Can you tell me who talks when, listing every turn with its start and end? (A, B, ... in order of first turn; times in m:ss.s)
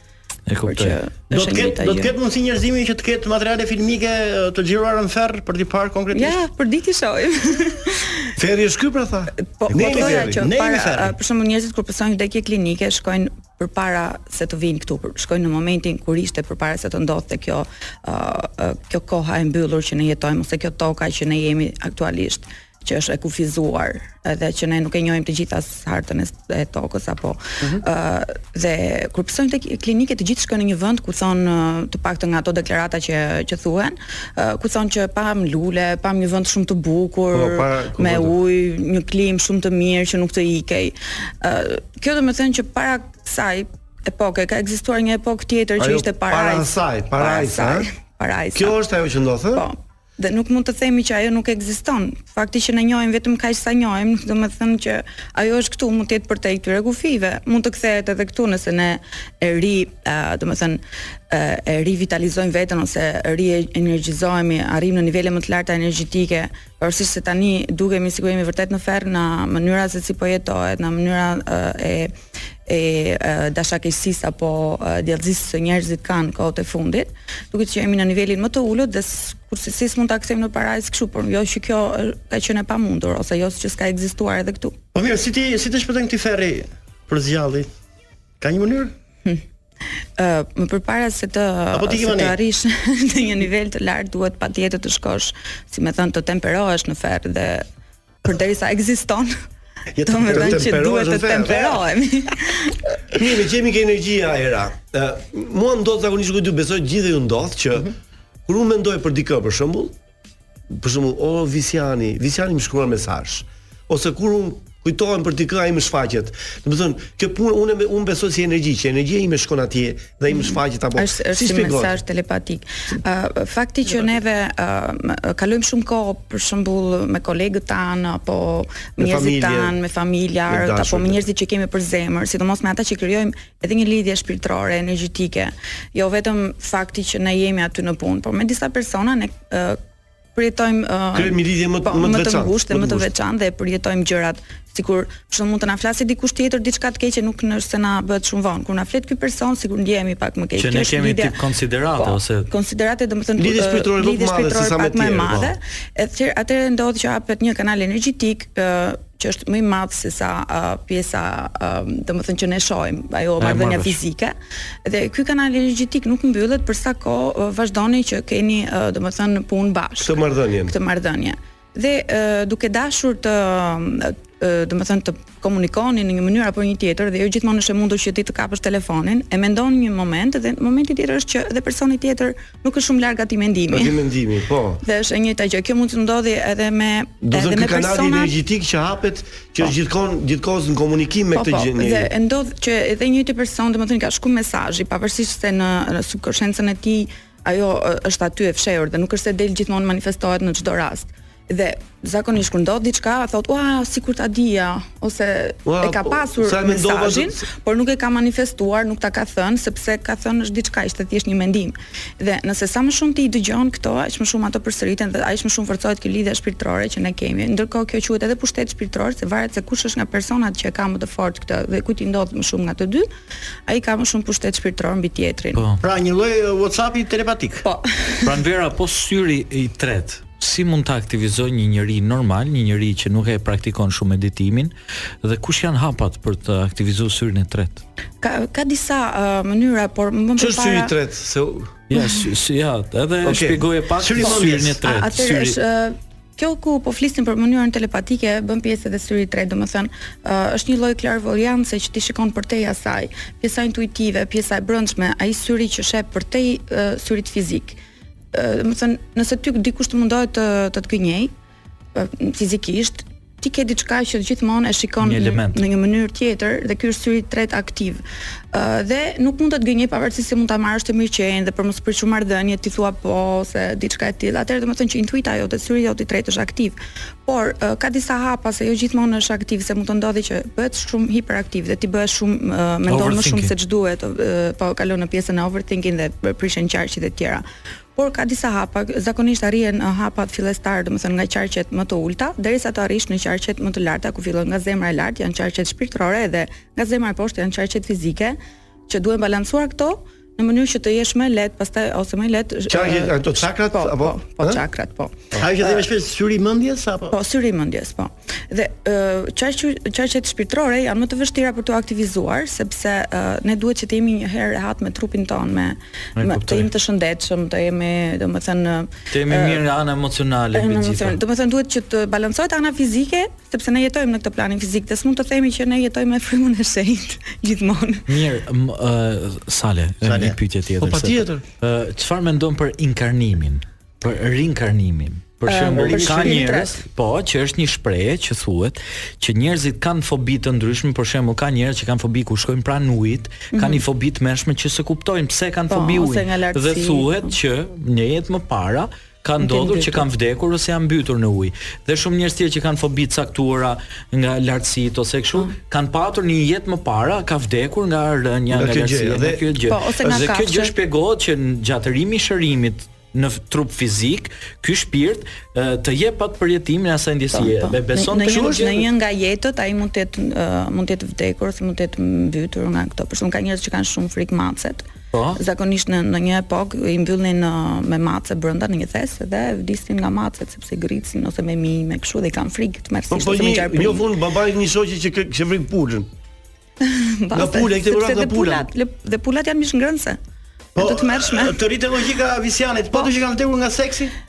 0:00.5-0:01.0 A
0:00.6-0:02.1 B
0:01.3-0:06.4 C
0:06.1-0:08.3 B
0:08.4-0:10.4 D
0:09.6-0:48.8 B
0:09.7-0:11.1 C
0:37.3-0:38.3 D
0:45.8-0:47.9 D
0:48.5-0:49.6 D
0:49.5-1:12.1 B
1:12.7-1:24.8 B
1:24.9-1:27.7 C
1:28.4-1:28.9 C
1:30.2-1:37.6 B
1:31.7-1:32.4 C
1:38.2-1:39.3 B
1:39.9-1:40.7 C
1:40.0-1:42.8 B
1:40.2-1:41.8 D
1:43.1-1:47.9 D
1:48.5-1:49.9 D
1:50.7-2:02.0 D
2:00.3-2:19.8 B
2:09.0-2:09.8 D
2:10.5-2:11.2 D
2:20.3-2:31.4 B
2:21.1-2:23.1 D
2:30.6-2:32.5 A
2:32.0-3:04.0 B
2:33.4-2:35.5 D
2:43.4-2:44.0 A
2:50.0-2:50.8 D
3:03.7-3:04.8 D
3:04.8-3:08.3 B
3:07.2-3:12.1 D
3:11.3-3:43.1 B
3:25.6-3:27.4 D
3:43.7-3:45.6 B
3:45.5-3:45.8 A
3:45.8-3:47.6 C
3:47.6-3:48.2 B
3:48.2-3:57.8 A
3:58.2-4:00.9 B
4:00.4-4:01.7 D
4:01.9-4:05.6 A
4:03.2-4:03.7 D
4:04.0-4:04.8 C
4:04.2-4:17.8 B
4:18.3-4:21.3 B
4:21.9-4:47.4 B
4:25.0-4:25.6 A
4:42.9-4:43.5 A
4:48.0-5:05.8 B
5:02.7-5:04.6 D
5:05.4-5:07.1 C
5:07.1-5:19.6 B
5:16.2-5:16.7 A
5:19.1-5:21.2 A
5:20.5-5:28.0 B
5:28.1-6:08.8 A
5:30.0-5:30.4 C
5:30.8-5:31.4 D
5:35.4-5:36.8 B
5:43.5-5:43.8 B
5:45.7-5:47.3 B
5:49.4-5:50.0 B
5:58.5-6:00.2 D
5:59.6-6:00.7 B
6:07.3-6:24.0 B
6:08.1-6:08.8 D
6:15.1-6:15.4 A
6:23.1-6:26.1 D
6:26.8-6:30.2 B
6:27.3-6:28.7 D
6:30.8-6:31.6 B
6:30.8-6:34.1 C